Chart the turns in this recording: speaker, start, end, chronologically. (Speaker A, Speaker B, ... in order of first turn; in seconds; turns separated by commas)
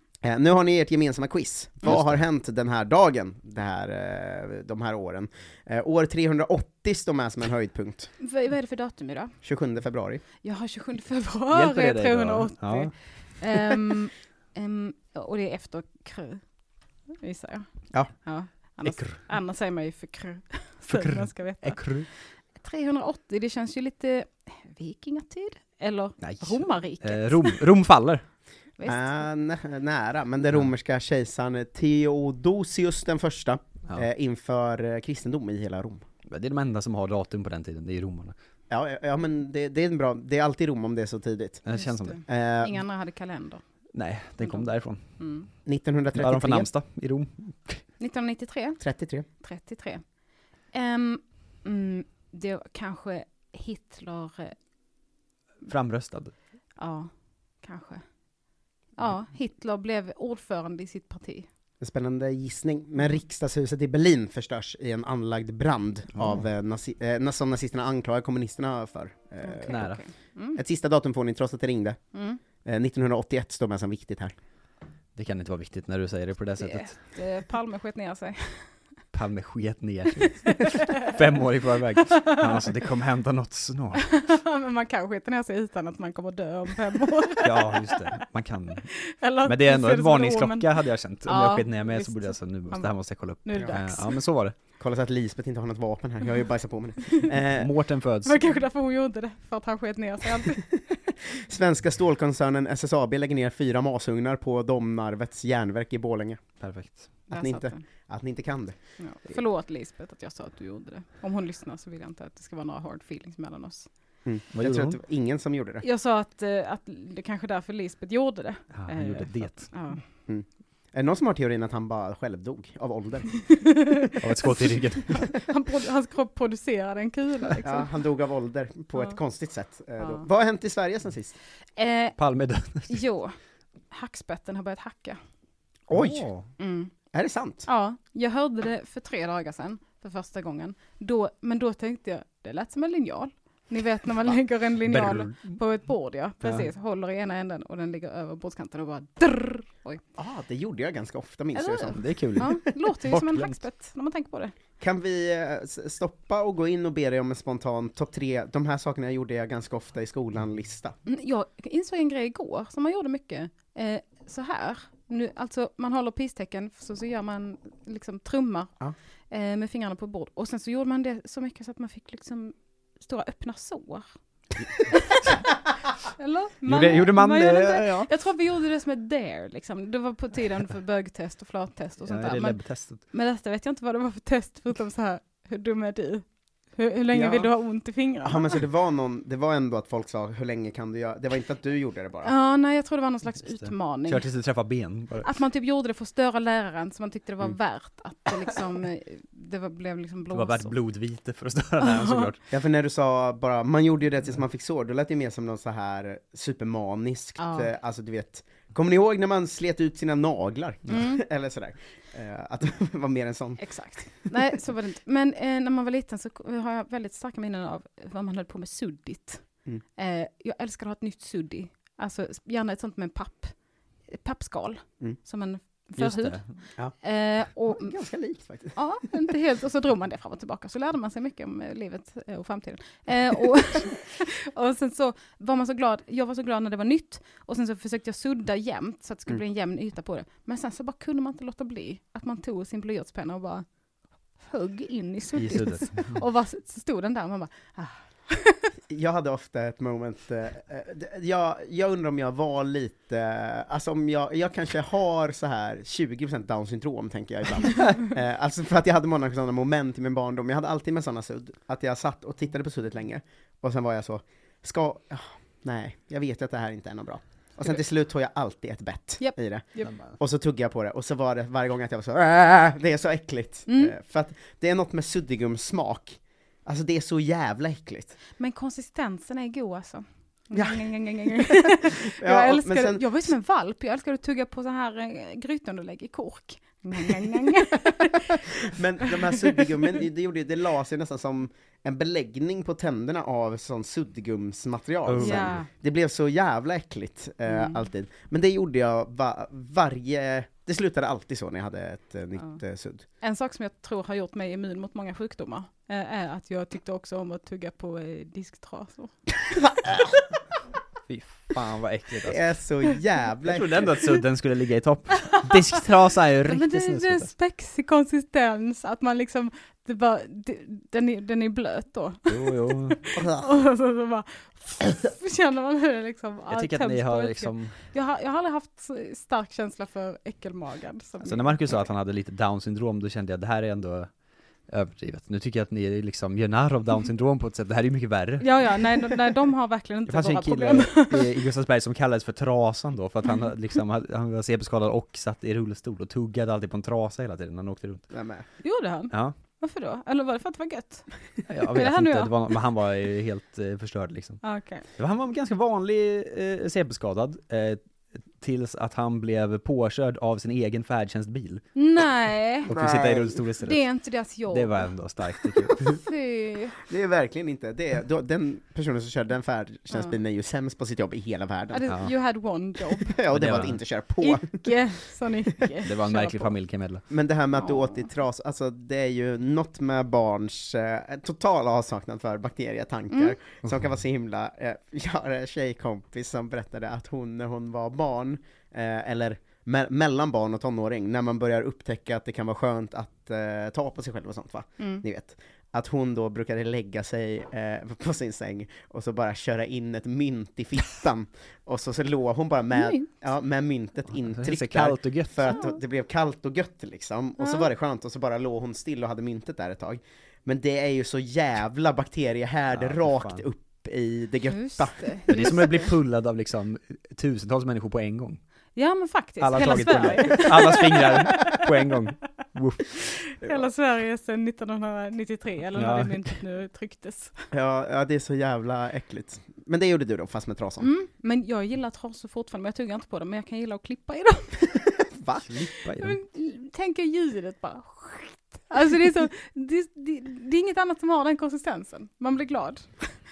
Speaker A: 0.2-8.1, Speaker B: 1.9-2.2, Speaker C: 8.2-9.3, Speaker A: 9.4-10.2, Speaker C: 10.4-16.4, Speaker B: 11.5-12.9, Speaker C: 17.2-17.7, Speaker C: 18.2-21.8, Speaker B: 18.9-19.2, Speaker B: 20.9-22.1, Speaker C: 22.6-27.6, Speaker B: 26.2-28.2, Speaker C: 28.8-29.2, Speaker A: 28.9-36.0, Speaker B: 36.2-38.4, Speaker A: 38.7-41.6, Speaker B: 41.6-42.2, Speaker C: 41.7-43.6, Speaker A: 42.2-42.8, Speaker B: 43.9-45.0, Speaker C: 44.4-44.7, Speaker C: 45.2-45.5, Speaker A: 45.6-46.7, Speaker B: 46.1-47.9, Speaker C: 48.0-48.8, Speaker A: 48.8-49.2, Speaker C: 49.4-50.0, Speaker C: 50.7-54.6, Speaker B: 55.6-56.3, Speaker C: 56.8-57.1, Speaker C: 57.6-58.0, Speaker C: 59.0-61.5, Speaker A: 61.8-69.8, Speaker B: 66.1-66.4, Speaker C: 69.4-70.6, Speaker B: 69.7-70.0, Speaker A: 70.6-72.0, Speaker C: 72.1-72.4, Speaker A: 72.6-74.3, Speaker B: 75.2-77.1, Speaker C: 76.6-78.7, Speaker B: 79.1-84.1, Speaker C: 80.7-81.1, Speaker C: 84.0-88.0, Speaker B: 87.4-88.9, Speaker C: 89.0-90.7, Speaker B: 89.4-94.5, Speaker C: 91.2-94.2, Speaker A: 94.8-97.7, Speaker B: 97.6-98.6, Speaker C: 98.2-100.6, Speaker A: 100.7-106.6, Speaker B: 106.6-107.2, Speaker A: 107.3-108.8, Speaker C: 107.3-107.8, Speaker C: 109.0-113.9, Speaker A: 114.2-115.8, Speaker B: 114.5-115.0, Speaker C: 115.8-120.0, Speaker B: 118.7-119.7, Speaker A: 120.3-123.6, Speaker C: 123.6-127.9, Speaker B: 124.2-125.3, Speaker A: 127.6-131.4, Speaker C: 130.0-130.2, Speaker C: 131.8-132.2, Speaker B: 132.2-133.0, Speaker C: 132.9-133.4, Speaker C: 133.9-135.2, Speaker A: 135.9-136.3, Speaker B: 135.9-136.5, Speaker C: 136.6-136.9, Speaker A: 137.1-137.7, Speaker C: 137.7-150.0, Speaker B: 144.8-145.6, Speaker B: 146.4-146.7, Speaker A: 150.2-152.5, Speaker C: 151.6-154.5, Speaker B: 151.9-153.6, Speaker A: 154.8-160.9, Speaker C: 161.1-168.7, Speaker C: 169.3-174.1, Speaker C: 174.9-175.4, Speaker C: 176.2-188.6, Speaker B: 176.6-178.1, Speaker B: 182.1-183.0, Speaker A: 187.1-187.5, Speaker A: 188.2-192.3, Speaker C: 192.2-194.2, Speaker B: 193.4-195.3, Speaker C: 195.2-200.7, Speaker B: 200.3-202.4, Speaker C: 201.8-202.3, Speaker A: 202.5-213.7, Speaker C: 207.4-207.7, Speaker C: 210.9-211.2, Speaker C: 213.6-223.5, Speaker C: 224.1-226.4, Speaker B: 226.0-226.5, Speaker C: 227.0-228.0, Speaker A: 227.7-228.8, Speaker C: 228.7-243.6, Speaker C: 244.4-248.7, Speaker B: 245.4-246.2, Speaker A: 248.9-278.2, Speaker C: 269.2-269.9, Speaker C: 273.7-273.9, Speaker C: 278.4-288.4, Speaker A: 280.5-283.2, Speaker A: 288.1-303.1, Speaker C: 289.1-289.6, Speaker B: 295.1-295.6, Speaker C: 295.2-295.7, Speaker C: 297.5-297.9, Speaker C: 303.2-309.2, Speaker A: 309.5-310.2, Speaker B: 311.1-312.4, Speaker A: 312.2-313.9, Speaker B: 313.4-317.3, Speaker C: 316.5-331.6, Speaker B: 322.3-323.0, Speaker A: 323.2-323.5, Speaker B: 326.5-327.8, Speaker B: 331.2-334.1, Speaker B: 334.7-339.1, Speaker C: 338.4-341.3, Speaker B: 340.1-348.1, Speaker A: 348.1-348.4, Speaker C: 348.6-351.1, Speaker B: 351.5-354.4, Speaker C: 351.7-352.3, Speaker C: 354.4-354.8, Speaker B: 354.9-357.8, Speaker B: 358.4-361.6, Speaker C: 361.8-362.7, Speaker B: 362.6-363.9, Speaker A: 362.7-363.4, Speaker C: 363.6-364.9, Speaker B: 364.5-366.0, Speaker C: 365.8-366.8, Speaker A: 366.9-371.9, Speaker C: 371.7-373.1, Speaker A: 373.0-374.8, Speaker B: 373.3-373.8, Speaker C: 374.2-376.5, Speaker B: 375.8-377.0, Speaker A: 377.1-415.4, Speaker C: 377.6-378.1, Speaker C: 383.1-383.4, Speaker C: 394.8-395.0, Speaker C: 402.7-403.1, Speaker B: 404.3-405.6, Speaker C: 405.5-405.8, Speaker C: 407.4-407.7, Speaker B: 412.7-413.4, Speaker C: 414.5-415.9, Speaker B: 415.3-418.4, Speaker C: 418.8-421.6, Speaker B: 419.4-423.0, Speaker C: 423.4-427.3, Speaker B: 425.8-426.3, Speaker A: 427.5-430.9, Speaker C: 430.8-434.8, Speaker A: 435.1-435.5, Speaker B: 435.5-436.2, Speaker C: 436.0-443.1